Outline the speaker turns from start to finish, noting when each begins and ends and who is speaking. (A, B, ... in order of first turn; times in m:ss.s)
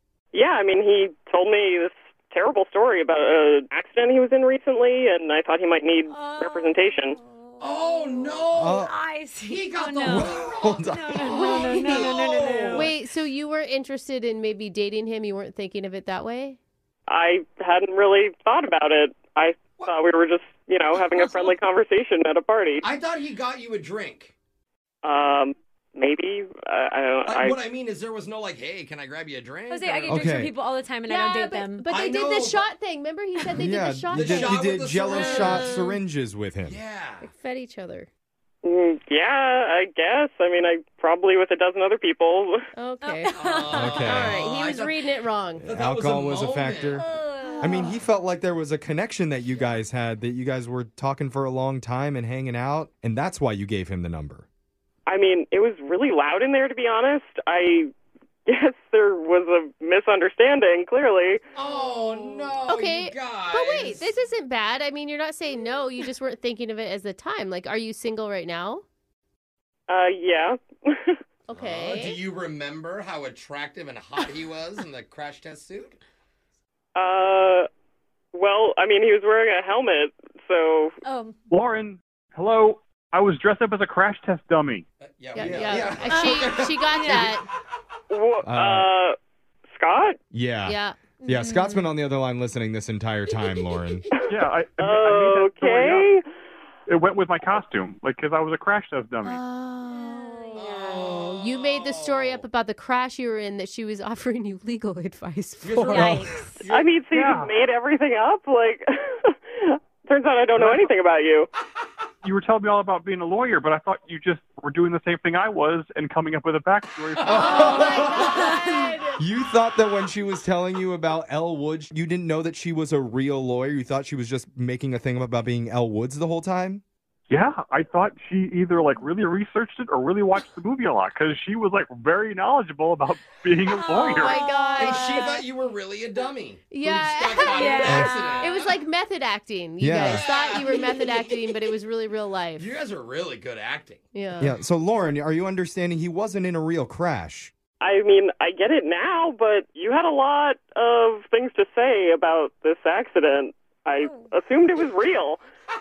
0:00.3-0:07.2 A
0:06.1-0:12.9 B
0:07.6-0:08.8 C
0:08.5-0:08.9 D
0:09.4-0:12.9 C
0:10.1-0:11.3 D
0:11.2-0:12.1 E
0:12.7-0:16.6 E
0:17.1-0:22.9 A
0:19.8-0:20.0 C
0:20.9-0:21.6 C
0:22.8-0:24.3 C
0:25.0-0:27.6 A
0:27.2-0:30.3 C
0:29.7-0:31.9 B
0:30.1-0:30.5 D
0:31.1-0:35.7 E
0:31.9-0:32.7 C
0:33.6-0:36.8 D
0:34.1-0:35.8 C
0:36.6-0:37.3 C
0:37.2-0:38.1 E
0:38.6-0:42.6 A
0:42.8-0:43.4 E
0:43.0-0:44.1 B
0:43.3-0:47.0 C
0:43.7-0:44.4 D
0:44.0-0:45.7 E
0:45.6-0:47.1 D
0:46.9-0:47.9 B
0:47.6-0:54.5 D
0:55.1-0:57.9 A
0:58.5-1:01.4 A
1:01.6-1:04.1 C
1:02.6-1:08.8 E
1:09.9-1:11.2 A
1:11.5-1:12.2 E
1:11.5-1:16.0 C
1:17.0-1:17.7 A
1:18.3-1:21.0 A
1:21.0-1:21.4 B
1:21.5-1:24.8 F
1:25.0-1:27.4 C
1:25.3-1:27.4 E
1:25.5-1:25.9 F
1:26.1-1:27.3 B
1:28.1-1:29.2 A
1:28.4-1:28.9 D
1:29.7-1:30.2 A
1:30.3-1:34.0 D
1:30.7-1:31.0 E
1:31.2-1:31.9 B
1:34.3-1:36.1 F
1:34.8-1:36.2 A
1:36.9-1:39.4 F
1:39.2-1:46.2 E
1:39.9-1:41.0 B
1:40.5-1:42.5 C
1:45.6-1:46.9 C
1:45.9-1:46.5 B
1:46.0-1:46.3 D
1:46.7-1:51.5 A
1:47.1-1:47.5 F
1:50.6-1:50.9 F
1:52.2-1:58.2 F
1:57.2-1:58.6 C
1:57.2-1:58.3 D
1:57.3-1:59.2 E
1:59.2-2:06.8 D
2:07.3-2:14.4 F
2:13.8-2:15.4 E
2:14.2-2:18.8 C
2:16.7-2:22.7 E
2:17.5-2:18.5 B
2:17.8-2:18.2 D
2:19.8-2:20.2 D
2:20.0-2:21.5 C
2:22.6-2:24.0 C
2:24.1-2:24.6 E
2:24.4-2:27.5 D
2:27.8-2:35.4 A
2:34.0-2:34.3 B